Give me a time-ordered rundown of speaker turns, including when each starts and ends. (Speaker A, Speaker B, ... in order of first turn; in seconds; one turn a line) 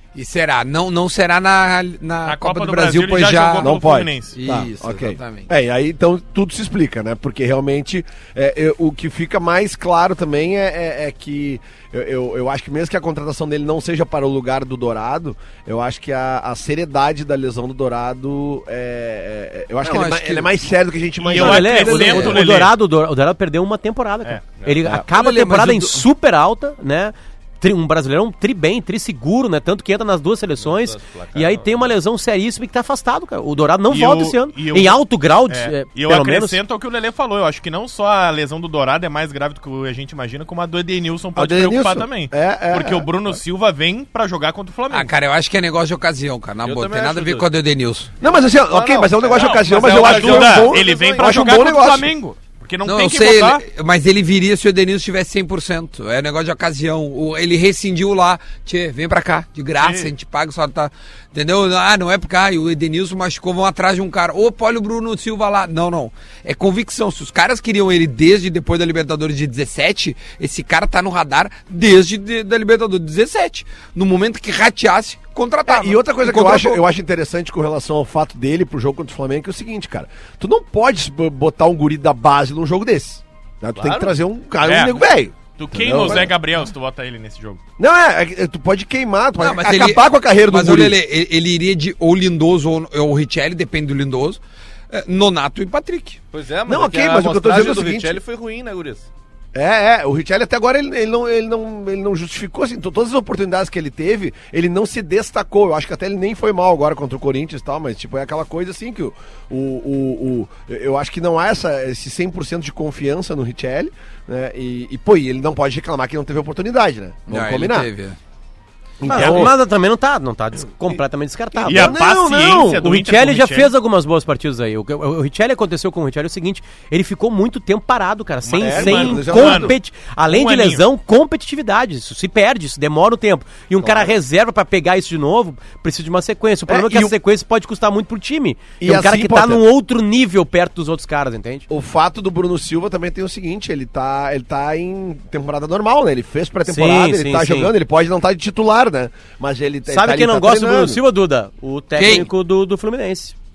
Speaker A: 0.1-3.8
Speaker B: 2.2-4.4
Speaker C: 3.6-21.9
Speaker A: 4.3-5.5
Speaker A: 19.8-20.5
Speaker B: 21.2-22.7
Speaker D: 21.3-36.6
Speaker A: 21.5-22.5
Speaker A: 24.9-26.1
Speaker E: 30.6-31.9
Speaker B: 33.9-45.1
Speaker C: 41.4-43.1
Speaker A: 44.9-48.1
Speaker E: 46.6-47.5
Speaker E: 48.2-51.4
Speaker C: 48.2-52.1
Speaker B: 49.3-53.6
Speaker A: 52.8-76.8
Speaker B: 59.8-60.1
Speaker C: 75.7-86.3
Speaker E: 83.8-84.2
Speaker B: 84.6-85.0
Speaker B: 85.6-87.6
Speaker C: 87.8-91.0
Speaker A: 89.4-96.2
Speaker E: 96.3-99.1
Speaker C: 96.7-98.2
Speaker C: 99.5-117.9
Speaker A: 117.3-118.2
Speaker C: 119.0-119.5
Speaker D: 119.0-141.7
Speaker B: 119.0-119.5
Speaker C: 121.6-122.7
Speaker B: 121.7-123.7
Speaker B: 128.4-129.8
Speaker C: 128.6-129.8
Speaker B: 130.3-130.8
Speaker C: 133.8-134.1
Speaker C: 136.7-137.1
Speaker C: 138.8-139.6
Speaker C: 141.7-151.0
Speaker D: 146.7-147.7
Speaker D: 149.9-153.3
Speaker A: 152.0-152.3